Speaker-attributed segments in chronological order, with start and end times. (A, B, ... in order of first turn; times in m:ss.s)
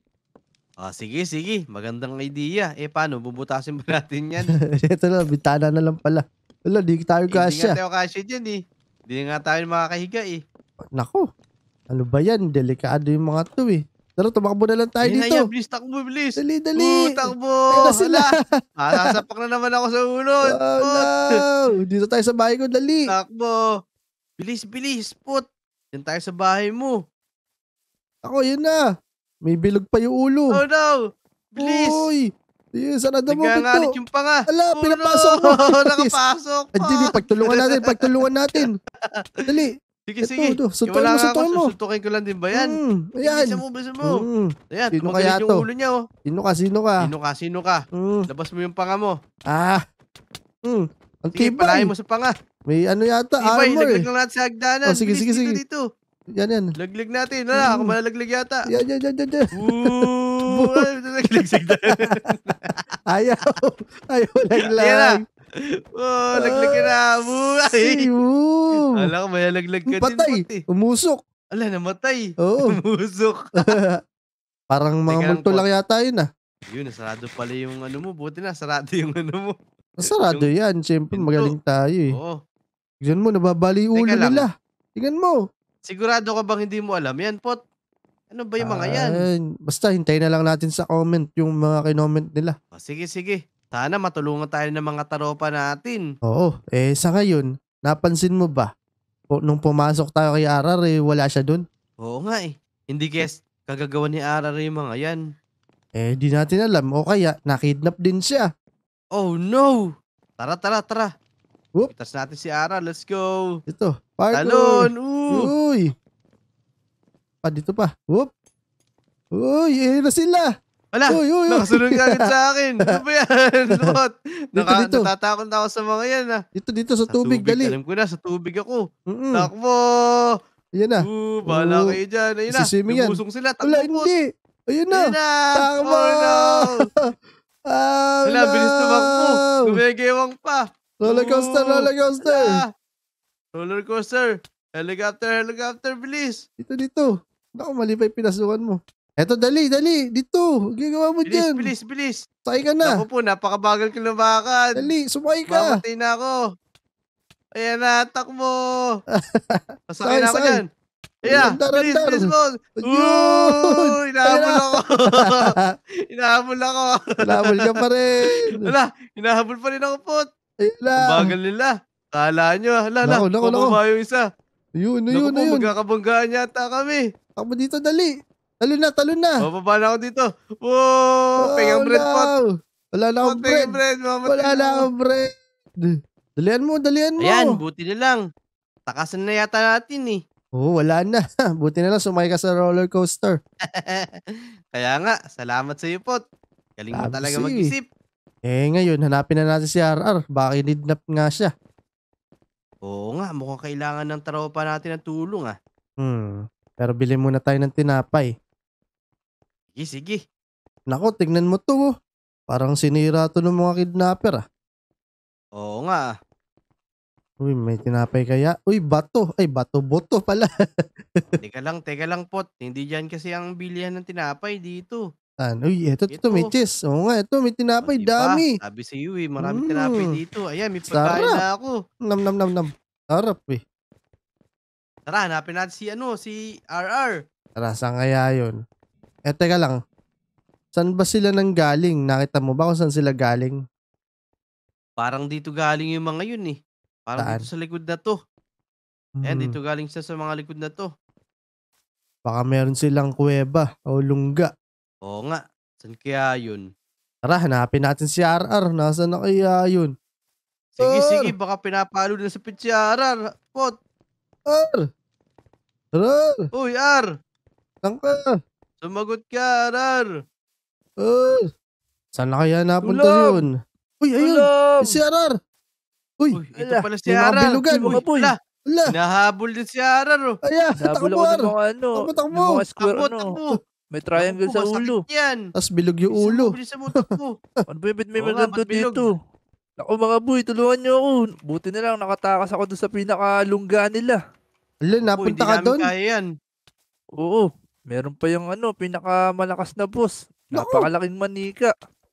0:00.8-0:04.5 A
0:04.8-0:07.8 B
0:07.3-0:08.6 A
0:09.1-0:10.4 A
0:11.0-0:11.2 B
0:11.9-0:15.4 B
0:15.0-0:21.4 A
0:16.4-0:17.2 B
0:17.7-0:18.3 B
0:20.5-0:23.1 B
0:23.1-0:23.6 A
0:24.4-0:27.0 A
0:28.2-0:28.8 B
0:29.4-0:30.6 B
0:30.5-0:31.0 A
0:31.5-0:32.1 A
0:31.6-0:32.2 B
0:32.8-0:33.9 B
0:33.3-0:37.9 A
0:34.5-0:36.1 B
0:36.8-0:38.8 B
0:40.1-0:44.2 A
0:40.2-0:41.7 B
0:42.6-0:45.6 B
0:44.7-0:46.0 A
0:46.3-0:47.1 B
0:47.0-0:49.1 A
0:47.9-0:48.2 B
0:49.5-0:49.8 B
0:50.7-0:51.9 B
0:51.4-0:52.3 A
0:52.7-0:54.0 B
0:53.4-0:55.8 A
0:54.8-0:55.6 B
0:56.4-0:56.7 B
0:56.8-0:58.6 A
0:57.6-0:57.9 B
0:58.7-0:59.5 B
0:59.6-1:02.7 A
1:00.5-1:00.8 B
1:03.1-1:05.1 B
1:04.6-1:05.1 A
1:06.0-1:08.1 A
1:06.4-1:06.9 B
1:07.8-1:08.8 B
1:08.8-1:10.6 A
1:09.9-1:11.2 B
1:11.6-1:13.7 A
1:12.4-1:12.7 B
1:13.6-1:13.9 B
1:14.7-1:16.3 B
1:15.1-1:15.6 A
1:16.7-1:19.5 A
1:20.0-1:22.1 B
1:21.2-1:21.5 A
1:23.0-1:25.4 B
1:23.9-1:24.4 A
1:25.9-1:27.6 A
1:28.3-1:29.2 A
1:28.6-1:32.5 B
1:32.7-1:36.0 A
1:36.3-1:38.7 B
1:39.3-1:41.6 B
1:42.0-1:45.2 A
1:46.0-1:48.5 B
1:49.2-1:49.8 A
1:50.4-1:51.1 A
1:51.9-1:53.5 A
1:53.7-1:54.8 B
1:54.3-1:55.5 A
1:55.3-1:55.9 B
1:57.4-1:58.3 B
1:59.4-2:00.5 B
2:00.9-2:06.4 A
2:01.1-2:02.2 B
2:04.6-2:05.1 B
2:06.6-2:07.8 B
2:07.1-2:08.8 A
2:09.1-2:09.5 B
2:09.4-2:10.2 A
2:10.8-2:11.9 B
2:11.0-2:14.1 A
2:12.5-2:17.1 B
2:14.9-2:16.7 A
2:17.7-2:19.7 B
2:18.3-2:22.7 A
2:21.0-2:22.5 B
2:23.6-2:26.4 A
2:26.6-2:31.7 B
2:31.3-2:32.2 A
2:32.4-2:33.0 B
2:32.8-2:34.9 A
2:34.8-2:35.8 B
2:35.5-2:36.4 A
2:37.5-2:38.6 A
2:39.3-2:40.6 B
2:39.9-2:40.6 A
2:41.3-2:45.5 A
2:41.3-2:42.2 B
2:42.8-2:45.6 B
2:46.1-2:47.7 A
2:47.2-2:48.7 B
2:48.5-2:50.2 A
2:50.6-2:51.3 B
2:51.0-2:54.2 A
2:53.0-2:53.8 B
2:54.8-2:55.7 B
2:55.1-2:57.0 A
2:57.4-2:58.1 B
2:58.6-2:59.4 B
2:59.4-3:02.3 A
3:01.5-3:02.4 B
3:02.9-3:05.3 B
3:03.2-3:04.8 A
3:05.8-3:07.4 B
3:07.2-3:08.2 A
3:08.9-3:10.2 A
3:10.6-3:13.4 B
3:13.8-3:14.1 A
3:14.7-3:16.2 A
3:16.8-3:17.8 A
3:16.9-3:17.7 B
3:18.5-3:21.5 B
3:22.8-3:25.5 A
3:26.0-3:28.3 B
3:29.8-3:30.2 A
3:30.9-3:31.9 B
3:32.5-3:34.4 B
3:35.6-3:36.1 A
3:37.4-3:40.5 B
3:41.4-3:45.0 A
3:45.4-3:48.5 B
3:46.1-3:46.5 A
3:47.8-3:51.7 A
3:49.4-3:50.1 B
3:50.9-3:51.3 B
3:52.1-3:53.6 B
3:55.1-3:57.1 A
3:57.6-3:58.6 B
3:59.3-3:59.8 B
4:00.7-4:03.6 B
4:05.0-4:08.2 A
4:07.2-4:07.4 B
4:09.2-4:09.6 B
4:09.2-4:10.9 A
4:12.3-4:14.5 B
4:15.0-4:16.6 A
4:17.3-4:19.9 B
4:20.8-4:23.7 A
4:20.8-4:21.3 B
4:24.5-4:24.8 B
4:25.9-4:26.4 B
4:26.5-4:27.1 A
4:27.8-4:28.2 B
4:28.8-4:30.1 A
4:31.0-4:31.5 B
4:32.2-4:33.5 B
4:32.8-4:33.4 C
4:34.0-4:35.3 B
4:34.2-4:34.9 C
4:36.3-4:38.4 A
4:36.6-4:36.8 C
4:37.0-4:38.0 B
4:37.8-4:38.3 C
4:38.9-4:40.4 A
4:40.4-4:41.5 B
4:40.8-4:43.3 C
4:42.0-4:42.6 B
4:42.8-4:43.6 A
4:43.9-4:45.0 C
4:44.2-4:45.4 A
4:45.6-4:46.5 B
4:46.1-4:47.3 A
4:47.7-4:49.1 C
4:48.2-4:49.0 A
4:49.8-4:54.2 C
4:54.9-4:55.9 B
4:55.1-4:56.2 A
4:57.2-5:01.7 C
5:00.6-5:00.9 B